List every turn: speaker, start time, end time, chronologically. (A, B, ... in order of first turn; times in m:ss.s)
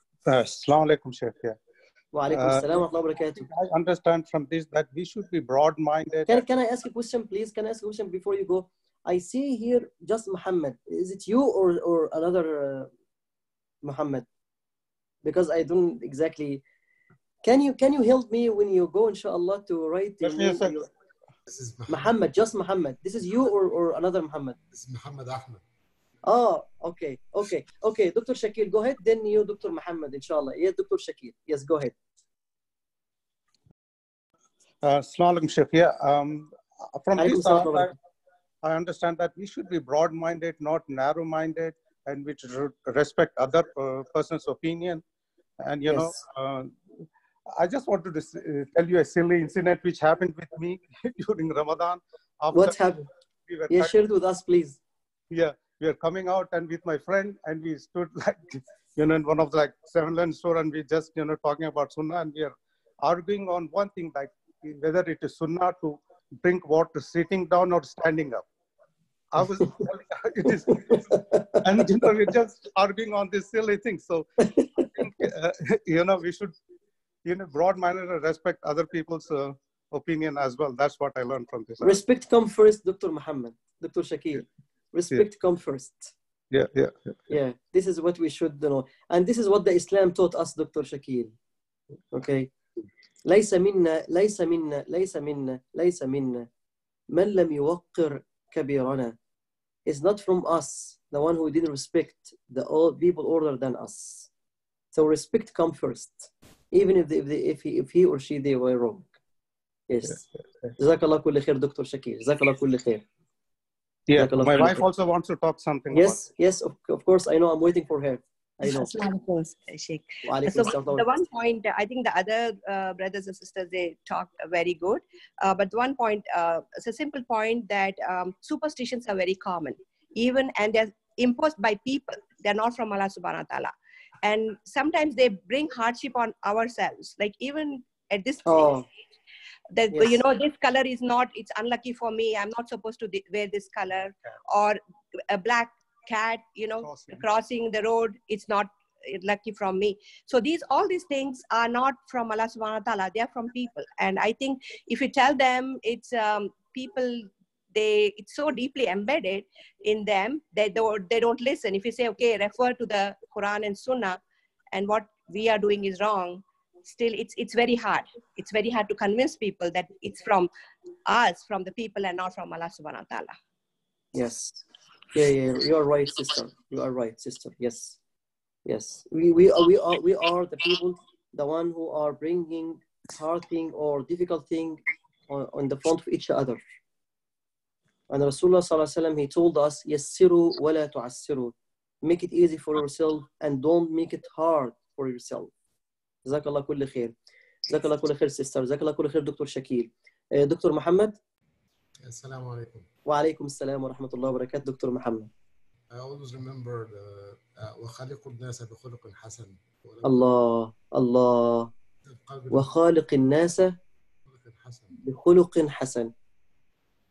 0:00.2-0:01.6 A
0:02.1-0:03.4 B
0:02.3-0:02.8 A
0:03.4-0:06.4 A
0:06.3-0:12.9 B
0:13.8-0:14.2 B
0:15.2-0:16.6 B
0:17.4-0:20.9 B
0:20.2-0:20.7 A
0:21.5-0:22.2 C
0:21.9-0:24.6 B
0:24.7-0:25.6 C
0:26.2-0:31.9 B
0:34.8-0:37.9 A
0:37.2-0:37.9 B
0:38.6-0:45.0 A
0:45.6-0:46.8 A
0:45.9-0:46.2 B
0:47.5-0:52.8 A
0:52.5-0:53.0 B
0:53.5-0:54.0 A
0:53.7-0:54.8 B
0:55.3-1:08.4 A
1:09.3-1:11.0 A
1:10.9-1:11.8 B
1:11.6-1:14.2 A
1:14.4-1:15.2 B
1:15.0-1:16.5 A
1:17.2-1:22.0 A
1:21.8-1:26.1 B
1:26.5-1:27.2 A
1:27.3-1:31.3 B
1:32.1-1:32.5 B
1:33.2-1:36.5 B
1:37.1-1:39.1 B
1:39.8-1:44.3 B
1:44.9-1:49.1 B
1:49.9-1:50.2 B
1:50.8-1:53.0 B
1:54.1-1:56.2 A
1:54.2-1:54.8 B
1:55.9-1:59.0 B
2:00.2-2:01.1 B
2:00.4-2:13.7 D
2:14.2-2:18.7 D
2:18.4-2:18.8 B
2:19.7-2:44.2 D
2:19.9-2:20.2 B
2:26.8-2:27.3 A
2:44.7-2:50.5 D
2:51.0-2:53.3 D
2:54.1-2:54.6 B
2:55.1-2:58.0 B
2:58.6-3:06.6 B
3:08.1-3:15.5 B
3:16.2-3:17.1 B
3:17.7-3:21.2 B
3:22.0-3:22.9 C
3:23.0-3:25.3 B
3:25.9-3:30.2 C
3:30.0-3:31.7 B
3:32.1-3:32.7 C
3:32.5-3:33.7 B
3:34.2-3:35.0 C
3:35.0-3:36.1 B